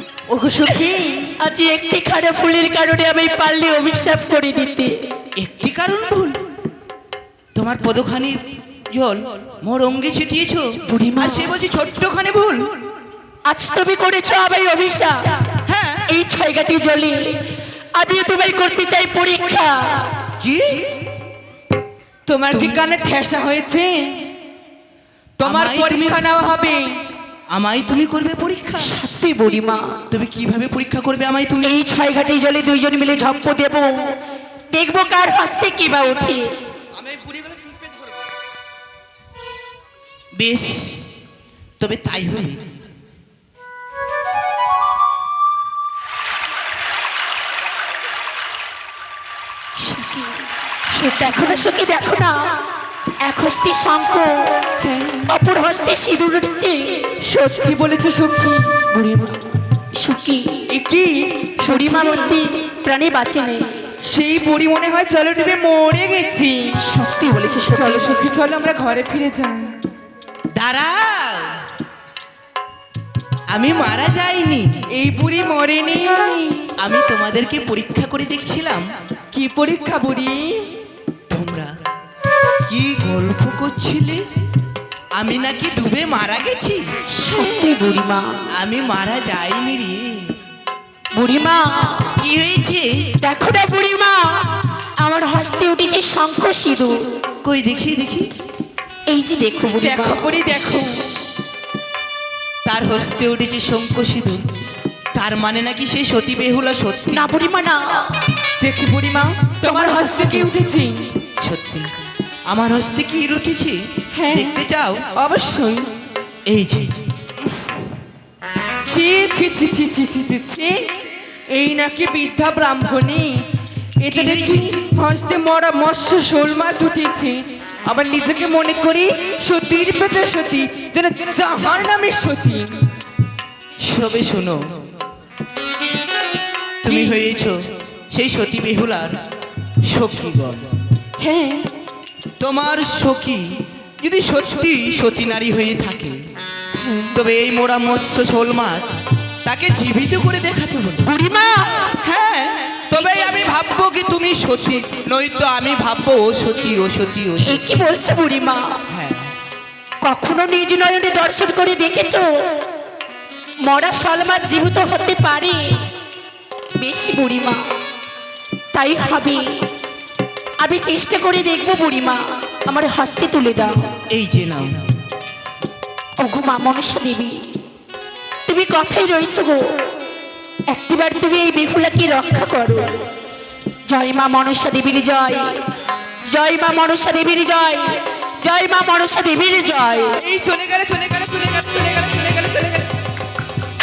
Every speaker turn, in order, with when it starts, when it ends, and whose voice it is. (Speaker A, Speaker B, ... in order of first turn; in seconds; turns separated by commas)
Speaker A: 0.3-1.3, Speaker B: 1.4-5.1, Speaker C: 5.4-6.5, Speaker C: 7.5-12.8, Speaker B: 10.8-11.5, Speaker B: 13.4-15.4, Speaker C: 15.7-16.1, Speaker B: 16.1-20.2, Speaker C: 20.4-21.0, Speaker A: 22.2-24.3, Speaker C: 22.5-22.8, Speaker A: 25.4-27.0, Speaker C: 25.4-26.2, Speaker C: 27.5-28.9, Speaker B: 28.8-30.1, Speaker C: 30.1-31.7, Speaker B: 31.6-34.2, Speaker B: 34.7-36.6, Speaker C: 37.1-37.7, Speaker C: 40.3-41.1, Speaker C: 41.8-42.6, Speaker B: 49.8-50.4, Speaker A: 50.9-51.7, Speaker B: 51.0-52.6, Speaker B: 53.2-54.7, Speaker A: 54.8-55.3, Speaker B: 55.3-57.1, Speaker A: 57.2-58.8, Speaker B: 58.9-60.7, Speaker A: 60.7-62.4, Speaker B: 61.6-63.8, Speaker A: 64.0-66.8, Speaker B: 66.8-68.3, Speaker A: 67.6-69.8, Speaker C: 70.5-71.6, Speaker C: 73.5-74.8, Speaker A: 74.9-76.7, Speaker C: 76.8-78.9, Speaker A: 79.3-80.8, Speaker C: 81.3-81.7, Speaker C: 82.7-84.3, Speaker C: 85.1-86.9, Speaker B: 87.1-88.4, Speaker C: 88.6-90.3, Speaker B: 91.1-92.2, Speaker C: 92.1-93.1, Speaker B: 93.2-97.2, Speaker C: 97.4-98.3, Speaker B: 99.1-100.4, Speaker A: 99.8-101.0, Speaker C: 102.6-104.5, Speaker C: 105.1-107.3, Speaker B: 107.1-108.1, Speaker A: 108.6-111.2, Speaker B: 109.6-110.5, Speaker C: 111.4-115.1, Speaker A: 114.1-114.6, Speaker A: 115.2-115.9, Speaker C: 116.4-117.0, Speaker A: 118.9-120.9, Speaker A: 121.5-123.4, Speaker A: 124.0-132.8, Speaker C: 124.1-124.8, Speaker C: 133.8-134.7, Speaker C: 136.8-139.2, Speaker A: 136.8-137.2, Speaker C: 139.8-140.7, Speaker A: 141.2-141.8, Speaker C: 142.4-146.2, Speaker C: 147.1-151.1, Speaker B: 151.0-152.0, Speaker C: 152.0-157.6, Speaker B: 157.4-158.8, Speaker C: 158.9-159.3, Speaker B: 160.0-162.7, Speaker B: 163.6-165.9, Speaker B: 166.7-167.7, Speaker B: 168.7-169.7, Speaker B: 170.6-173.9, Speaker C: 174.1-174.9, Speaker B: 176.2-177.5, Speaker B: 178.4-179.8, Speaker B: 180.7-183.1, Speaker B: 183.8-185.7, Speaker B: 186.2-190.2, Speaker A: 190.2-192.9